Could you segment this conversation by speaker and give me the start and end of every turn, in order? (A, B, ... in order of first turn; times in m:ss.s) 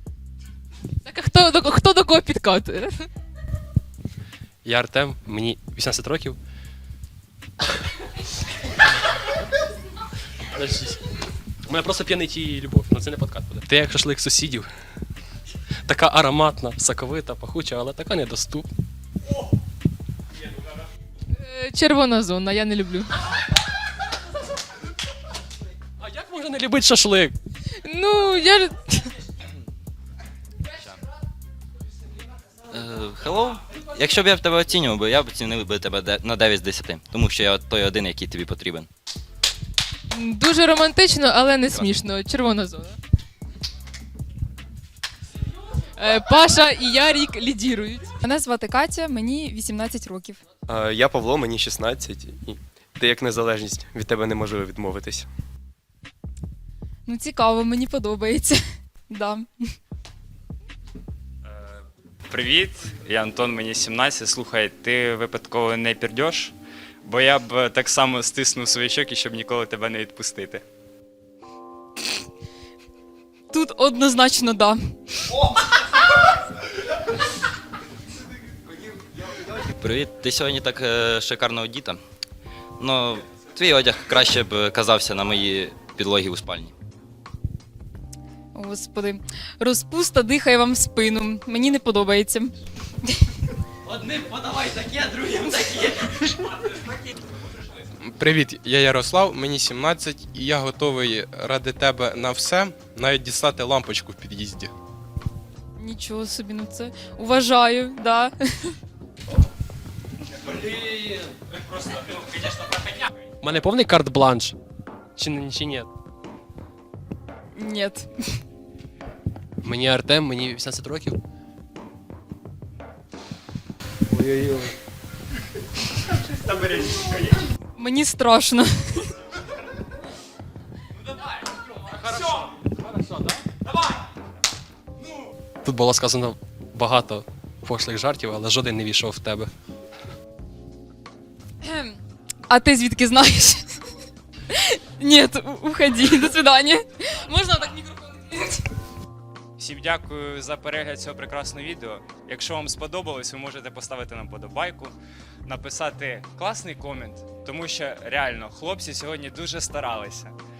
0:01.0-0:03.0 A
0:04.6-0:06.4 B
0:10.5-0:11.0 B
0:11.7-0:14.7 B
0:15.9-0:18.7 B
0:21.3-0:23.1 A
0:26.0-0:27.4 B
0:27.8-0:29.1 A
0:32.7-0:38.9 C
0:40.1-0:43.0 A
0:46.0-0:48.1 A
0:48.2-0:50.4 D
0:50.7-0:55.3 E
0:57.0-0:59.5 D
1:01.4-1:10.6 F
1:13.5-1:14.8 D
1:19.7-1:22.0 C
1:22.8-1:26.7 C
1:28.5-1:32.5 D
1:33.9-1:36.2 C
1:38.0-1:44.7 G
1:45.8-1:48.8 D
1:53.4-1:54.6 B
1:55.2-1:55.9 B
1:57.5-1:58.1 D
1:59.6-2:01.2 B
2:06.5-2:07.1 F
2:07.8-2:09.1 D
2:15.6-2:19.5 B
2:21.6-2:23.6 D
2:24.5-2:28.6 D
2:29.6-2:34.9 F
2:35.4-2:40.3 F